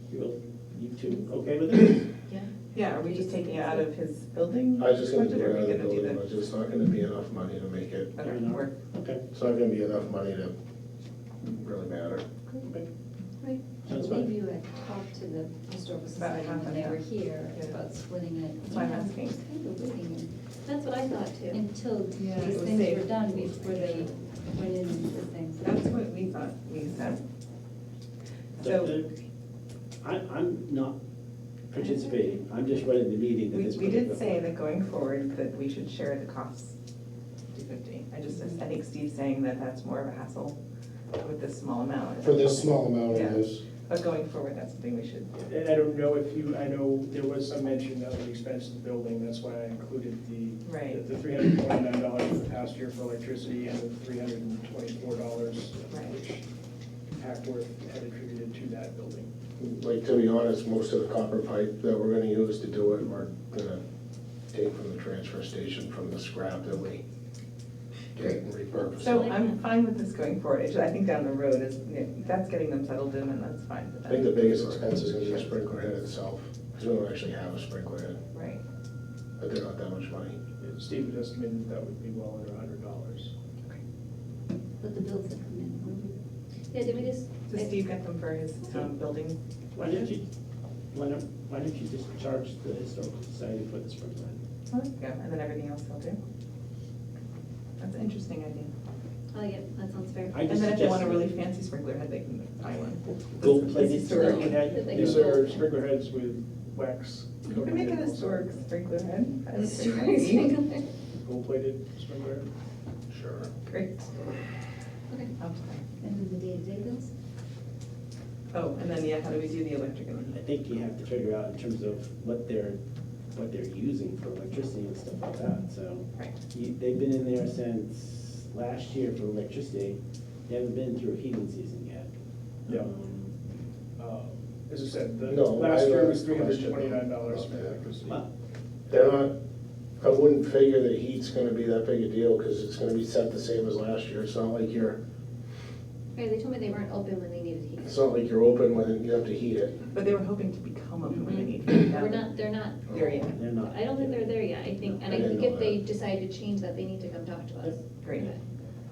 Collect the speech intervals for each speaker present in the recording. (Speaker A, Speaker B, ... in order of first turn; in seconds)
Speaker A: 0.1-2.0, 8.2-9.2, 13.8-14.3, 28.6-29.1, 30.0-31.0, 31.7-34.4, 89.7-90.3, 90.9-94.4, 100.3-101.3, 103.4-105.3, 120.3-122.8, 123.3-132.1, 132.7-133.3, 153.3-155.2
Speaker B: 2.3-3.8, 20.6-21.6, 86.7-87.7, 99.3-100.4, 104.1-105.6, 109.9-110.9, 146.2-148.0, 151.2-153.0, 153.6-158.4
Speaker C: 2.7-6.2, 8.2-8.8, 16.2-17.9, 18.7-19.4, 22.2-23.1, 25.6-27.2, 28.6-28.9, 33.5-36.8, 37.5-40.6, 41.2-45.3, 50.6-51.0, 55.9-56.1, 69.0-75.5, 78.3-78.6, 87.5-89.4, 94.7-96.2, 97.8-98.7, 100.5-104.6, 107.5-110.5, 113.7-114.1, 115.4-115.8, 118.5-120.4, 149.9-152.3, 152.9-153.4, 158.0-158.3
Speaker D: 4.8-8.1, 9.3-10.5, 11.4-12.2, 23.3-24.3, 42.2-43.6, 59.6-63.8, 64.5-67.0, 68.2-69.3, 74.1-78.2, 79.4-80.4, 113.1-113.5, 135.3-137.8, 138.9-139.3, 140.0-145.0, 147.8-149.7, 155.1-155.8
Speaker E: 13.9-20.4, 21.5-25.8, 84.8-86.1, 116.0-117.1
Speaker F: 45.4-56.4, 57.2-59.3, 80.6-83.3, 104.9-108.7, 111.2-112.5, 134.0-138.2